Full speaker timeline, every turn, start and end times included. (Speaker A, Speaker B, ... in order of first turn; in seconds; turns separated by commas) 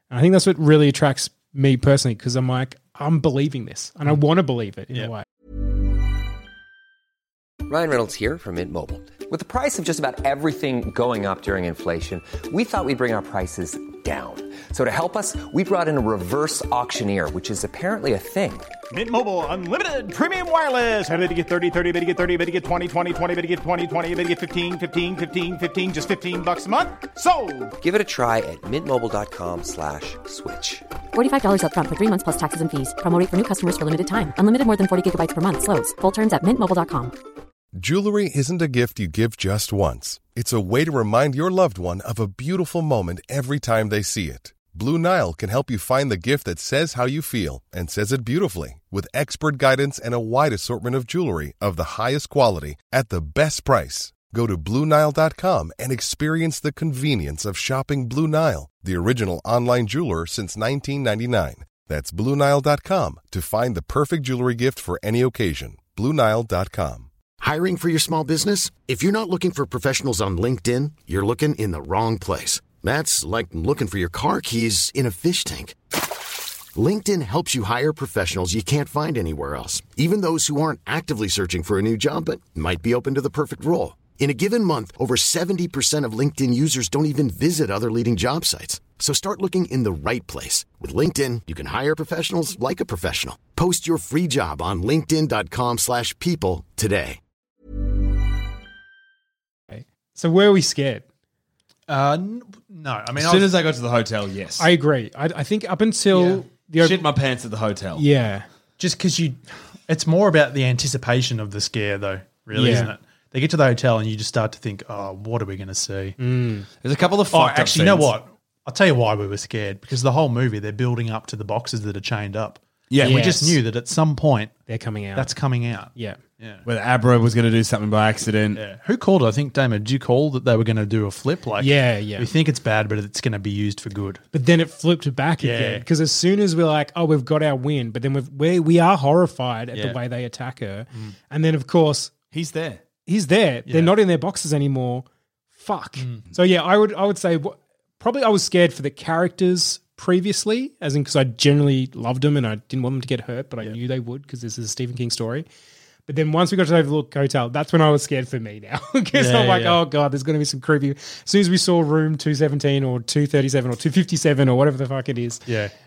Speaker A: 0.1-5.3, Speaker B: 7.7-18.7, Speaker C: 18.9-27.8, Speaker B: 27.8-30.9, Speaker D: 31.1-37.1, Speaker E: 37.8-67.1, Speaker F: 67.4-75.8, Speaker F: 76.7-97.2, Speaker A: 99.7-101.0, Speaker G: 101.9-103.5, Speaker H: 103.2-104.7, Speaker A: 104.6-107.0, Speaker G: 106.1-106.4, Speaker H: 106.8-108.0, Speaker A: 108.0-108.5, Speaker G: 108.8-116.2, Speaker A: 112.5-112.9, Speaker A: 116.2-116.7, Speaker H: 116.8-118.1, Speaker G: 117.3-124.6, Speaker H: 122.9-123.4, Speaker A: 123.0-123.6, Speaker A: 124.7-125.3, Speaker G: 125.2-126.6, Speaker H: 126.7-128.6, Speaker G: 128.6-134.2, Speaker A: 131.6-132.3, Speaker A: 134.3-142.1, Speaker G: 135.4-135.8, Speaker H: 142.3-142.8, Speaker A: 143.1-145.1, Speaker G: 143.7-143.9, Speaker A: 145.6-155.5, Speaker G: 146.0-146.2, Speaker A: 156.1-165.4, Speaker G: 159.2-159.8, Speaker G: 165.5-165.7